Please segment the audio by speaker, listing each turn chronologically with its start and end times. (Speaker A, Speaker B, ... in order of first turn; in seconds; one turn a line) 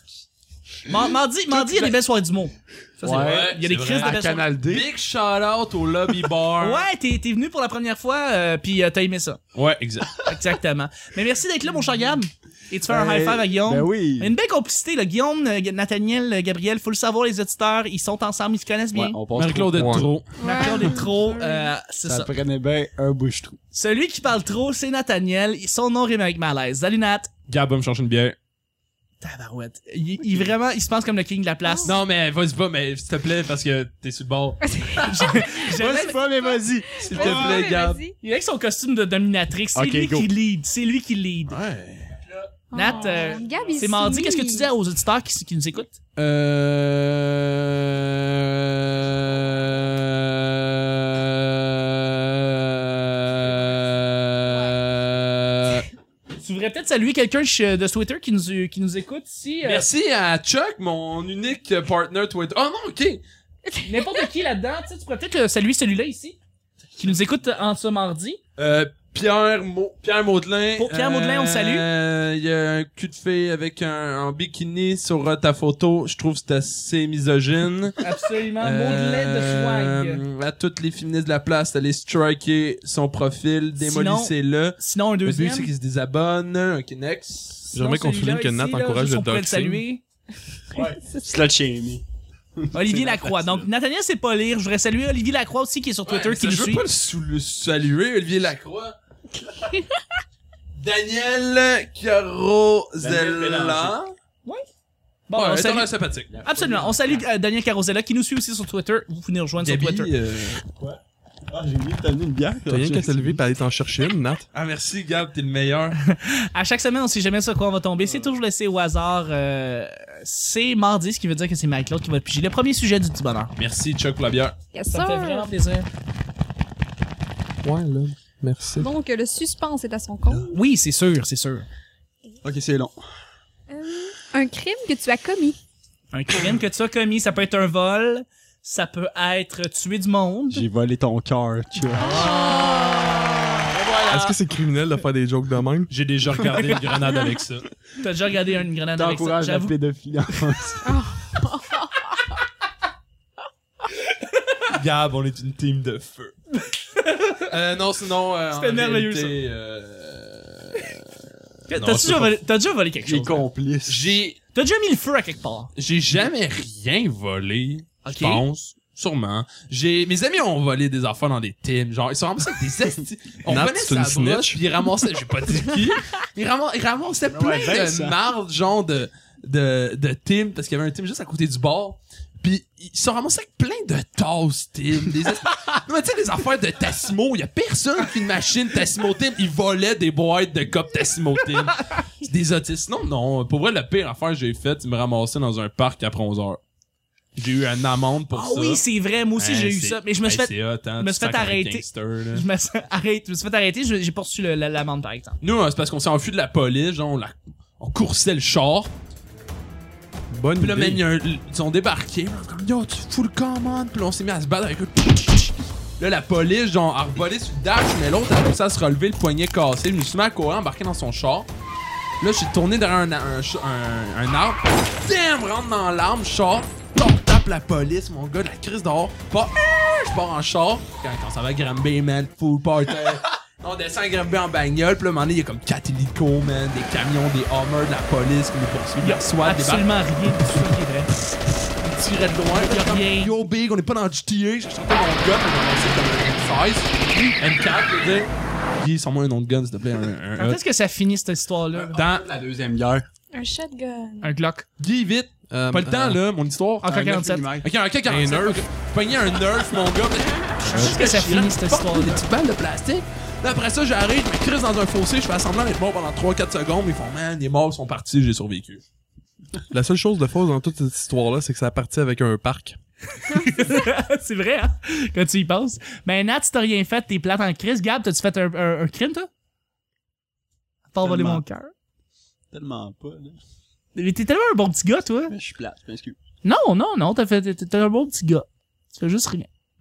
Speaker A: 0.8-4.5
Speaker B: 3.0-4.9
Speaker C: 3.0-6.8
Speaker A: 6.6-9.4
Speaker C: 9.5-10.2
Speaker A: 10.2-19.2
Speaker B: 12.9-14.3
Speaker B: 18.9-20.1
Speaker C: 19.3-20.4
Speaker D: 19.7-20.1
Speaker E: 20.4-21.7
Speaker A: 20.4-22.3
Speaker B: 22.0-23.6
Speaker A: 23.7-27.3
Speaker C: 27.5-28.4
Speaker A: 29.2-31.9
Speaker E: 31.6-31.9
Speaker C: 31.8-35.1
Speaker E: 34.8-35.4
Speaker A: 35.0-36.2
Speaker B: 35.6-37.6
Speaker E: 36.4-38.1
Speaker C: 37.0-38.0
Speaker A: 38.2-41.6
Speaker B: 39.7-40.3
Speaker C: 41.5-42.2
Speaker E: 42.7-44.7
Speaker A: 42.7-46.0
Speaker C: 46.1-55.9
Speaker A: 56.4-59.9
Speaker C: 59.6-63.2
Speaker E: 63.7-64.2
Speaker A: 63.8-66.4
Speaker A: 67.0-68.4
Speaker C: 68.6-78.0
Speaker A: 70.8-71.8
Speaker A: 78.0-80.2
Speaker C: 78.6-87.6
Speaker A: 83.8-85.7
Speaker A: 87.7-90.0
Speaker D: 87.7-89.8
Speaker B: 90.7-92.0
Speaker B: 92.6-93.7
Speaker A: 92.7-96.8
Speaker C: 96.0-99.0
Speaker E: 99.7-100.0
Speaker C: 100.8-104.1
Speaker B: 103.0-104.0
Speaker A: 105.3-105.9
Speaker C: 105.3-106.3
Speaker B: 106.3-107.3
Speaker A: 106.4-110.1
Speaker C: 109.6-110.6
Speaker B: 110.8-113.4
Speaker D: 112.7-114.4
Speaker C: 114.5-116.0
Speaker A: 116.0-123.5
Speaker C: 123.5-124.5
Speaker E: 124.7-125.5
Speaker A: 124.9-125.9
Speaker D: 127.6-128.9
Speaker E: 128.7-130.5
Speaker A: 130.5-131.6
Speaker B: 132.4-133.0
Speaker E: 133.7-135.6
Speaker A: 136.1-140.6
Speaker B: 140.5-142.3
Speaker A: 141.9-144.3
Speaker E: 141.9-143.7
Speaker D: 144.0-145.9
Speaker C: 145.9-147.7
Speaker A: 148.0-149.7
Speaker B: 148.9-150.9
Speaker E: 150.8-152.3
Speaker C: 154.7-156.3
Speaker A: 156.9-157.5
Speaker C: 157.5-161.1
Speaker A: 158.5-159.4
Speaker A: 161.7-163.4
Speaker C: 161.7-162.4
Speaker B: 163.0-164.2
Speaker C: 163.9-164.4
Speaker A: 164.5-165.7
Speaker C: 165.7-196.6
Speaker A: 168.0-168.4
Speaker D: 173.5-174.6
Speaker B: 177.3-178.2
Speaker A: 191.7-192.0
Speaker C: 197.3-198.8
Speaker A: 198.3-205.4
Speaker C: 199.3-202.4
Speaker C: 205.4-208.9
Speaker D: 210.3-211.0
Speaker C: 210.6-221.5
Speaker C: 222.2-240.6
Speaker A: 239.0-241.1
Speaker C: 241.1-250.6
Speaker A: 242.5-243.3
Speaker A: 250.4-252.0
Speaker B: 251.7-253.1
Speaker C: 251.9-252.2
Speaker E: 253.3-254.3
Speaker A: 254.2-254.7
Speaker C: 254.8-268.8
Speaker D: 255.5-256.2
Speaker A: 256.8-257.4
Speaker B: 256.8-257.7
Speaker D: 258.1-258.6
Speaker A: 260.6-262.3
Speaker D: 269.7-272.8
Speaker A: 273.2-279.3
Speaker A: 280.9-281.7
Speaker B: 281.0-281.4
Speaker B: 282.5-283.4
Speaker A: 283.9-285.3
Speaker B: 285.3-286.2
Speaker A: 286.4-289.5